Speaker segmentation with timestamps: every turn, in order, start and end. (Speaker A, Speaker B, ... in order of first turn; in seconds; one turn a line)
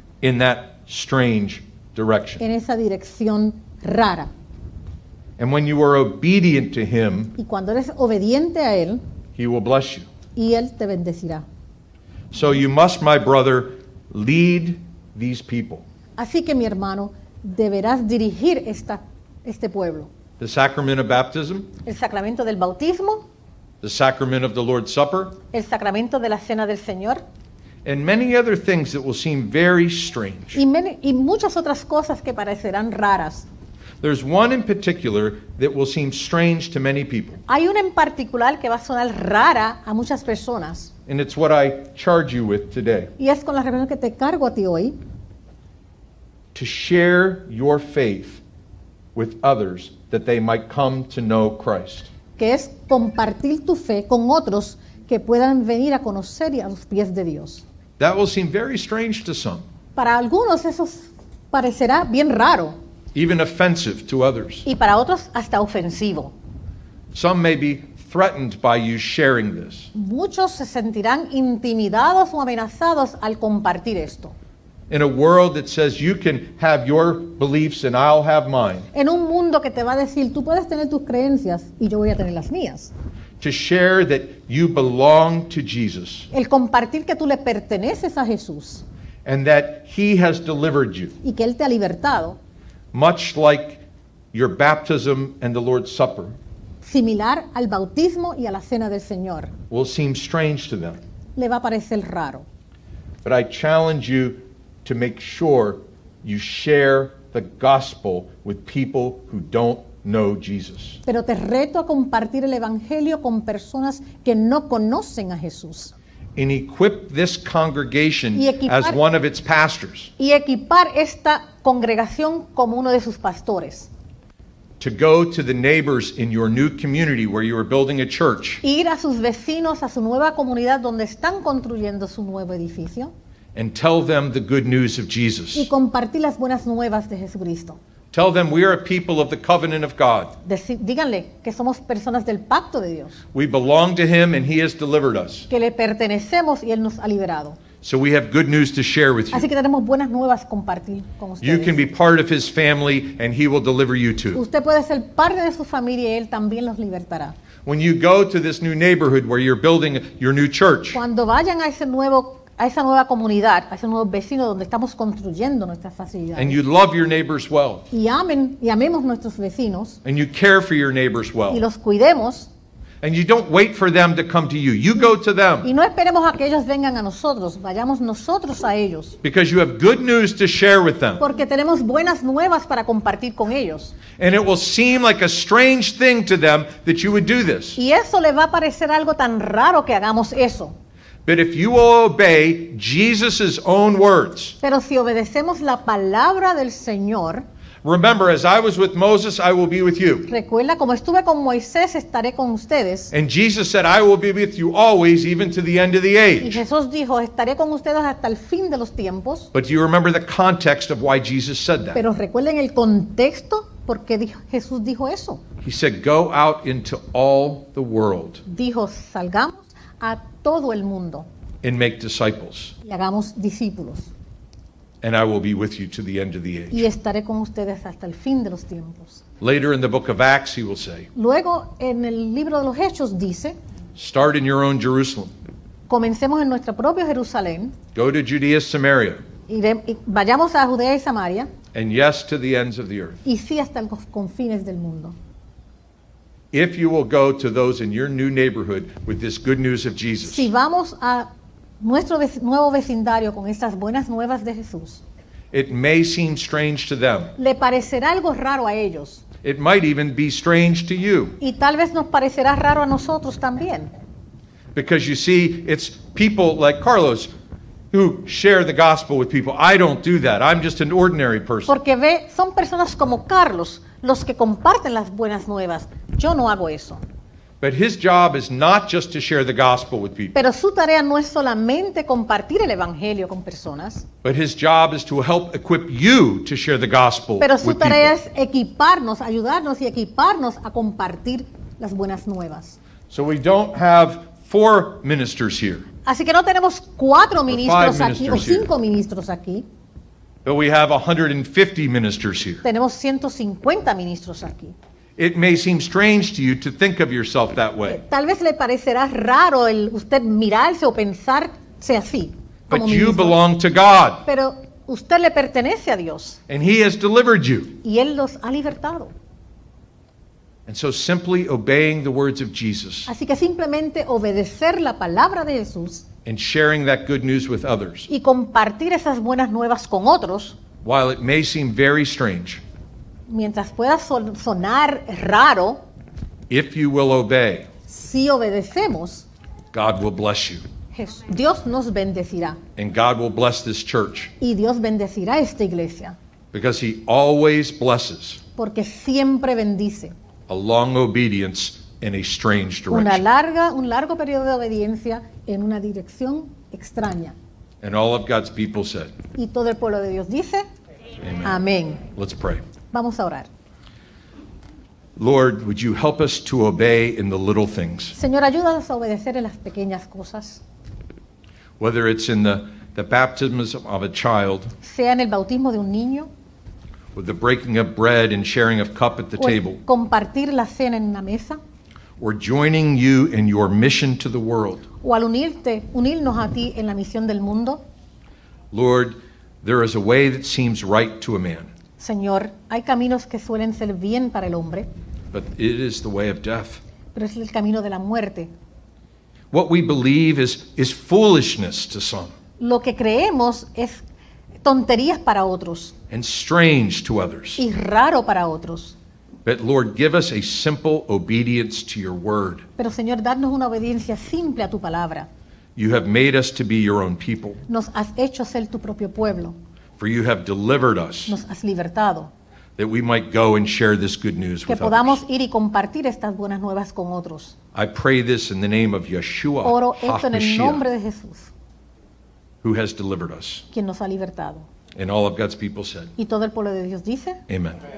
Speaker A: 0.2-2.4
Speaker B: 2.4-4.3
Speaker A: 5.4-7.3
Speaker B: 7.4-9.0
Speaker A: 9.4-10.1
Speaker B: 10.3-11.4
Speaker A: 12.3-15.8
Speaker B: 16.2-20.1
Speaker A: 20.4-21.7
Speaker B: 21.8-23.2
Speaker A: 23.8-25.4
Speaker B: 25.5-27.2
Speaker A: 27.8-30.6
Speaker B: 30.5-33.5
Speaker A: 34.0-37.4
Speaker B: 37.5-40.9
Speaker A: 41.1-43.1
Speaker B: 43.2-45.0
Speaker A: 46.5-48.4
Speaker A: 49.1-52.1
Speaker B: 52.4-57.6
Speaker A: 58.0-59.6
Speaker B: 60.0-62.8
Speaker A: 63.1-64.7
Speaker B: 64.6-66.3
Speaker A: 67.1-69.9
Speaker B: 69.9-74.3
Speaker A: 74.9-78.9
Speaker B: 78.9-82.9
Speaker A: 83.4-86.3
Speaker B: 86.3-88.8
Speaker A: 89.2-91.2
Speaker B: 91.2-92.4
Speaker A: 92.9-93.8
Speaker A: 94.3-96.3
Speaker B: 96.8-99.5
Speaker A: 99.7-101.0
Speaker B: 101.3-102.5
Speaker A: 103.2-111.0
Speaker B: 111.0-115.9
Speaker A: 116.3-120.1
Speaker B: 118.3-119.0
Speaker B: 120.2-123.9
Speaker A: 124.8-128.6
Speaker B: 128.6-133.1
Speaker A: 133.5-135.7
Speaker B: 135.5-137.8
Speaker A: 138.1-140.3
Speaker B: 140.4-143.2
Speaker A: 143.3-145.5
Speaker B: 145.5-147.6
Speaker A: 147.8-149.5
Speaker B: 149.3-151.8
Speaker A: 151.4-154.4
Speaker B: 154.3-157.3
Speaker A: 157.6-161.0
Speaker B: 160.9-166.6
Speaker A: 166.3-167.8
Speaker B: 167.9-170.0
Speaker A: 170.0-171.6
Speaker B: 171.5-172.5
Speaker A: 173.0-175.7
Speaker B: 175.6-179.2
Speaker A: 179.2-181.2
Speaker B: 181.2-183.9
Speaker A: 184.2-187.8
Speaker B: 187.8-190.7
Speaker A: 191.2-194.6
Speaker B: 194.6-197.4
Speaker A: 197.8-200.3
Speaker B: 200.3-203.1
Speaker A: 203.1-206.6
Speaker B: 206.4-209.5
Speaker A: 209.5-212.0
Speaker B: 211.9-215.4
Speaker A: 215.6-218.4
Speaker B: 218.4-221.3
Speaker A: 221.6-222.7
Speaker B: 222.8-224.1
Speaker A: 225.0-226.8
Speaker B: 226.7-229.2
Speaker A: 229.4-231.1
Speaker B: 231.1-233.6
Speaker A: 233.9-235.3
Speaker B: 235.9-237.8
Speaker A: 237.9-239.2
Speaker B: 239.5-241.5
Speaker A: 241.7-243.2
Speaker B: 243.2-245.1
Speaker A: 246.5-250.5
Speaker B: 250.2-251.3
Speaker B: 251.8-255.0
Speaker A: 255.5-257.3
Speaker B: 257.4-259.2
Speaker A: 259.4-261.4
Speaker B: 261.4-263.9
Speaker A: 264.7-267.3
Speaker A: 267.9-271.7
Speaker B: 271.7-277.0
Speaker A: 277.6-280.4
Speaker B: 280.3-284.1
Speaker A: 284.2-288.1
Speaker B: 287.4-292.8
Speaker A: 293.1-295.9
Speaker B: 296.0-299.7
Speaker A: 297.5-298.7
Speaker A: 300.4-302.6
Speaker B: 302.6-304.7
Speaker A: 305.2-308.0
Speaker B: 307.9-313.4
Speaker A: 312.7-314.2
Speaker B: 314.2-316.4
Speaker A: 316.5-317.8
Speaker B: 317.8-319.1
Speaker A: 320.7-323.1
Speaker B: 323.1-326.1
Speaker A: 326.2-328.1
Speaker B: 328.1-330.6
Speaker A: 330.8-332.6
Speaker B: 333.3-335.8
Speaker A: 336.5-337.7
Speaker B: 337.9-339.3
Speaker A: 339.7-340.6
Speaker B: 340.9-342.6
Speaker A: 342.8-344.3
Speaker B: 344.4-346.1
Speaker A: 346.5-348.4
Speaker B: 348.6-350.1
Speaker A: 350.5-353.2
Speaker B: 352.9-357.4
Speaker A: 357.8-359.1
Speaker B: 359.3-360.6
Speaker A: 361.2-361.5
Speaker B: 361.4-362.0
Speaker A: 362.1-362.6
Speaker B: 362.9-363.5
Speaker A: 365.2-368.1
Speaker B: 368.1-370.6
Speaker A: 371.8-374.7
Speaker B: 374.8-376.3
Speaker A: 377.1-379.8
Speaker B: 379.4-381.6
Speaker A: 382.2-384.8
Speaker B: 385.0-387.8
Speaker A: 388.7-391.7
Speaker B: 392.0-394.9
Speaker A: 395.3-396.8
Speaker B: 397.1-398.5
Speaker A: 399.5-402.3
Speaker B: 402.6-404.0
Speaker B: 404.6-405.9
Speaker A: 406.1-407.6
Speaker B: 407.6-408.9
Speaker A: 409.4-412.6
Speaker B: 412.8-415.3
Speaker A: 415.8-417.6
Speaker B: 417.7-419.6
Speaker A: 420.0-421.4
Speaker B: 421.3-422.3
Speaker A: 422.8-425.2
Speaker B: 424.7-427.6
Speaker A: 427.7-430.8
Speaker B: 429.6-431.5
Speaker A: 432.6-433.6
Speaker B: 433.7-434.7
Speaker A: 434.9-436.1
Speaker B: 436.2-437.4
Speaker A: 437.5-437.8